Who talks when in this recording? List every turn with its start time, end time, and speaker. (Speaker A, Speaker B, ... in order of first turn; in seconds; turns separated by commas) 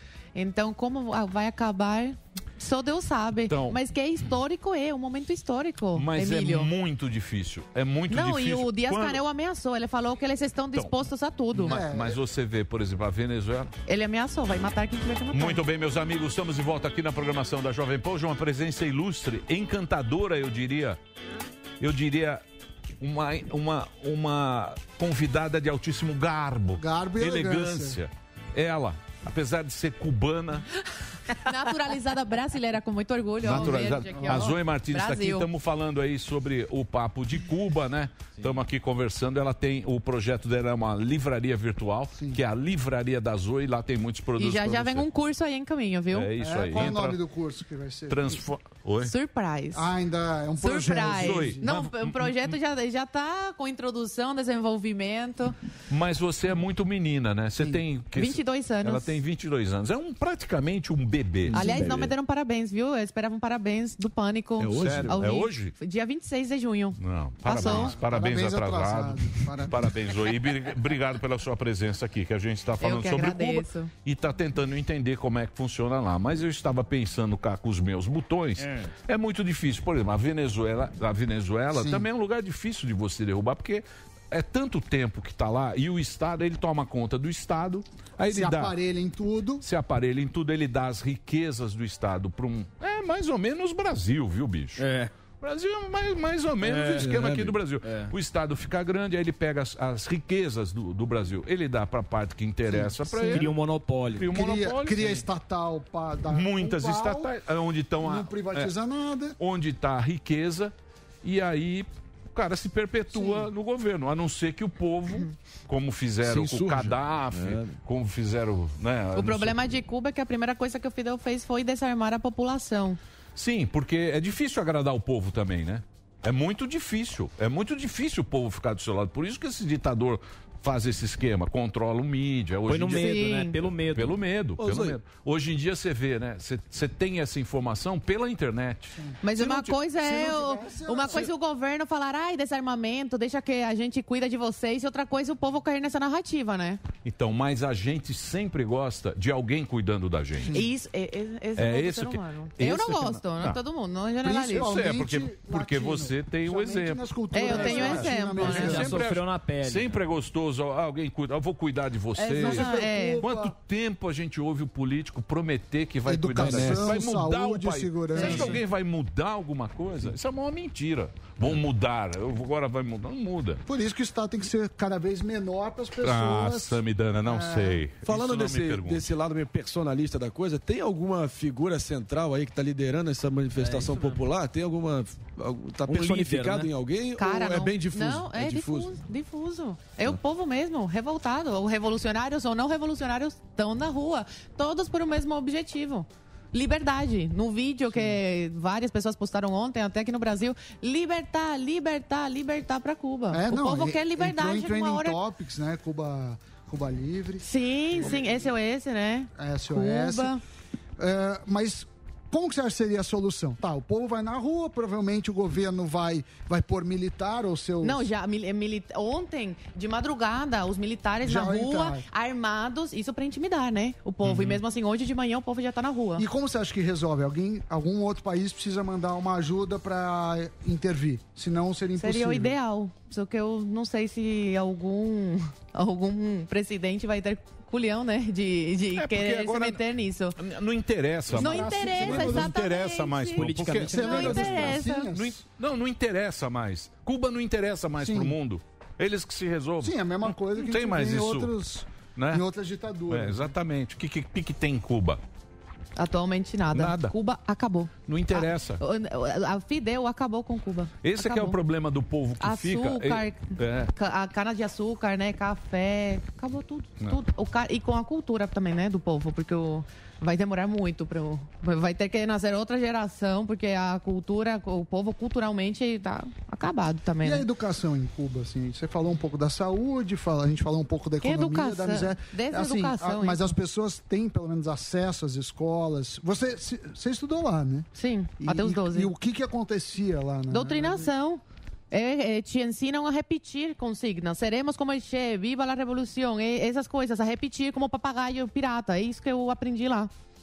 Speaker A: 0.3-6.7, Speaker B: 3.5-3.8, Speaker B: 5.9-9.2, Speaker A: 8.1-11.8, Speaker B: 11.5-13.7, Speaker C: 11.7-12.2, Speaker A: 13.9-15.6, Speaker B: 15.3-21.0, Speaker B: 21.8-22.4, Speaker B: 23.0-30.7, Speaker C: 26.8-28.0, Speaker A: 31.4-35.5, Speaker B: 33.4-45.1, Speaker C: 33.5-34.5, Speaker A: 44.4-46.3, Speaker B: 46.1-47.2, Speaker C: 46.4-48.4, Speaker B: 48.1-49.1, Speaker A: 49.0-49.9, Speaker C: 49.7-51.6, Speaker A: 50.6-55.5, Speaker B: 50.7-52.5, Speaker B: 55.9-62.1, Speaker A: 58.1-59.1, Speaker D: 61.5-62.1, Speaker A: 61.5-67.9, Speaker D: 64.6-65.2, Speaker B: 64.7-65.7, Speaker B: 67.0-88.7, Speaker C: 67.5-69.9, Speaker A: 72.8-73.9, Speaker E: 78.6-78.9, Speaker C: 81.7-82.0, Speaker C: 88.3-89.6, Speaker B: 89.6-94.8, Speaker E: 94.8-95.1, Speaker B: 95.4-103.5, Speaker D: 96.6-97.6, Speaker E: 97.8-98.1, Speaker C: 102.7-103.5, Speaker E: 103.3-104.3, Speaker B: 104.2-105.2, Speaker C: 104.3-107.3, Speaker B: 106.3-108.7, Speaker C: 108.0-109.3, Speaker B: 109.4-119.6, Speaker D: 116.2-117.8, Speaker A: 119.1-123.0, Speaker B: 123.3-139.6, Speaker E: 132.7-134.2, Speaker A: 133.0-133.6, Speaker D: 134.6-135.0, Speaker C: 139.0-141.3, Speaker A: 139.2-146.8, Speaker B: 147.0-150.5, Speaker C: 150.4-150.7, Speaker A: 150.5-154.7, Speaker B: 151.6-153.6, Speaker C: 154.2-159.0, Speaker B: 154.5-173.6, Speaker A: 157.3-158.8, Speaker E: 158.4-160.0, Speaker E: 162.2-162.5, Speaker C: 162.3-163.5, Speaker A: 162.4-163.2, Speaker C: 166.1-168.6, Speaker D: 166.3-167.1, Speaker A: 168.2-168.6, Speaker C: 173.7-177.8, Speaker B: 176.0-179.0, Speaker D: 178.1-188.9, Speaker E: 183.6-184.2, Speaker E: 185.9-186.7, Speaker A: 187.2-205.2, Speaker C: 203.3-208.5, Speaker A: 207.4-210.4, Speaker C: 209.3-210.3, Speaker C: 211.0-218.1, Speaker A: 217.8-226.2, Speaker C: 221.2-222.1, Speaker B: 224.2-224.6, Speaker C: 226.2-232.6, Speaker A: 232.0-240.4, Speaker B: 238.9-239.8, Speaker B: 240.4-251.5, Speaker C: 241.3-242.5, Speaker A: 241.3-245.1, Speaker E: 243.3-244.8, Speaker C: 243.9-245.4, Speaker C: 248.0-248.3, Speaker C: 249.8-253.5, Speaker B: 252.2-252.4, Speaker B: 253.1-255.2, Speaker A: 255.9-261.6, Speaker B: 256.7-257.1, Speaker B: 258.1-258.8, Speaker B: 261.0-263.9, Speaker A: 262.4-277.4, Speaker C: 277.2-287.9, Speaker A: 281.2-283.6, Speaker A: 287.9-289.1, Speaker C: 288.4-291.1, Speaker A: 290.5-300.1